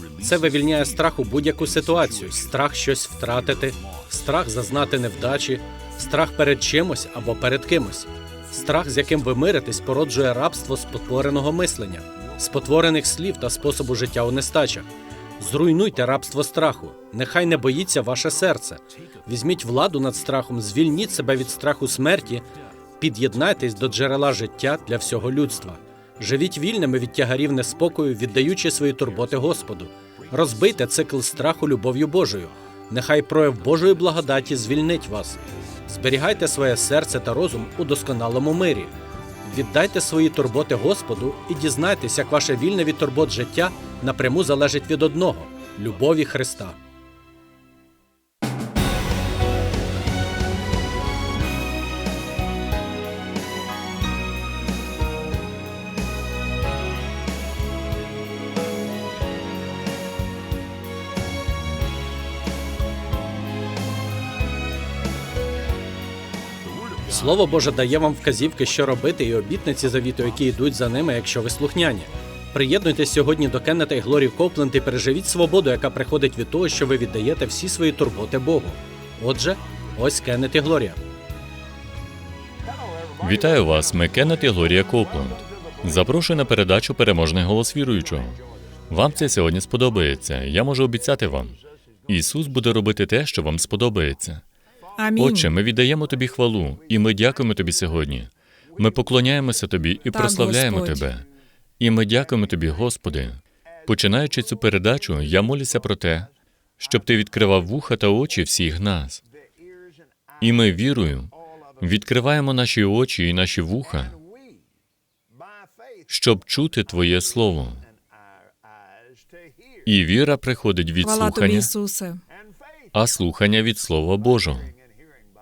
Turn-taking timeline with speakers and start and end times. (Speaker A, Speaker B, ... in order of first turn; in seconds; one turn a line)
Speaker A: 0.2-14.9
Speaker A: 15.4-22.5
Speaker A: 23.0-38.9
Speaker A: 39.4-46.8
Speaker A: 67.0-81.0
Speaker B: 83.2-94.4
Speaker C: 95.0-95.5
Speaker B: 95.2-101.3
Speaker C: 100.1-101.0
Speaker B: 101.8-109.2
Speaker B: 110.4-114.2
Speaker B: 116.1-117.8
Speaker B: 119.8-121.7
Speaker C: 121.0-122.2
Speaker B: 122.9-124.7